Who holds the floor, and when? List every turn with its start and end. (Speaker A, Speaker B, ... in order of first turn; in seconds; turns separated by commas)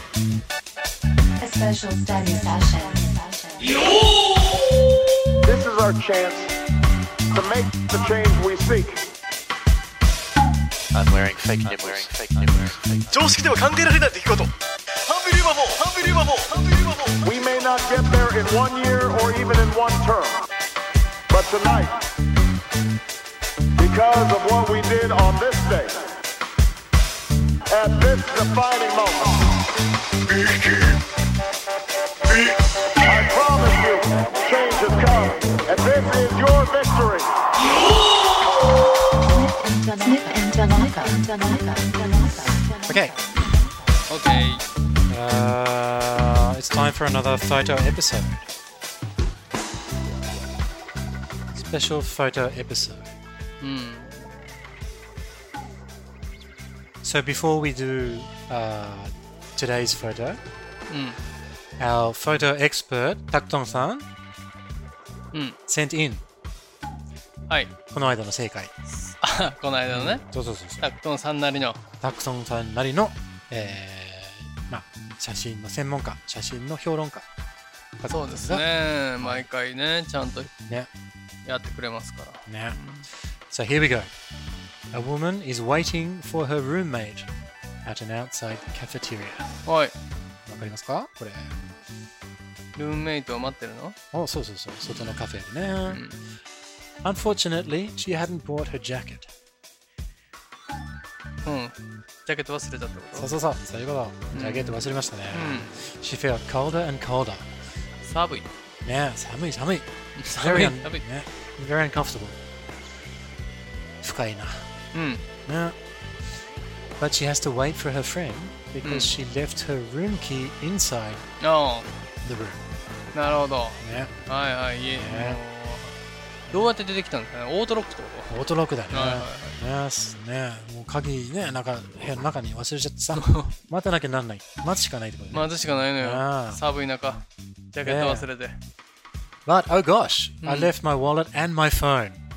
Speaker A: 1.4-3.7, Speaker B: 5.4-6.5, Speaker B: 7.3-9.0, Speaker C: 10.9-13.7, Speaker D: 13.2-14.5, Speaker D: 15.1-17.1, Speaker B: 17.2-20.4, Speaker B: 21.3-22.1, Speaker B: 23.8-26.1, Speaker B: 27.7-29.6, Speaker B: 30.3-31.0, Speaker B: 32.3-37.3, Speaker A: 39.3-43.3, Speaker E: 42.9-43.2, Speaker F: 44.1-44.6, Speaker E: 45.1-48.5, Speaker E: 51.5-53.1, Speaker F: 53.6-54.5, Speaker E: 57.0-60.4, Speaker F: 60.9-61.2, Speaker E: 61.8-64.1, Speaker F: 65.3-65.6, Speaker E: 65.7-66.2, Speaker E: 67.9-68.7, Speaker F: 68.9-70.2, Speaker E: 69.9-70.9, Speaker F: 70.8-71.8, Speaker E: 72.0-77.2, Speaker E: 78.0-78.7, Speaker F: 78.1-80.5, Speaker E: 79.2-79.5, Speaker F: 81.4-83.1, Speaker E: 82.5-82.8, Speaker E: 83.5-84.1, Speaker E: 84.9-87.3, Speaker E: 87.8-89.5, Speaker F: 89.6-89.9, Speaker E: 90.5-91.5, Speaker F: 92.7-94.0, Speaker E: 94.1-96.0, Speaker F: 94.8-95.2, Speaker F: 95.8-96.2, Speaker E: 97.0-99.3, Speaker F: 101.4-103.3, Speaker E: 103.1-107.5, Speaker F: 104.3-105.7, Speaker F: 108.0-108.5, Speaker E: 108.8-112.4, Speaker F: 110.2-111.0, Speaker E: 114.0-114.7, Speaker F: 114.9-115.2, Speaker E: 115.5-115.7, Speaker E: 117.0-121.2, Speaker F: 118.8-119.1, Speaker F: 121.4-121.9, Speaker E: 122.2-122.6, Speaker F: 123.1-125.9, Speaker E: 123.8-124.1, Speaker E: 124.9-125.4, Speaker F: 126.5-128.3, Speaker E: 128.3-136.6, Speaker F: 128.9-129.6, Speaker F: 133.1-133.5, Speaker F: 135.3-138.6, Speaker E: 137.8-138.3, Speaker E: 139.4-142.2, Speaker F: 140.4-140.7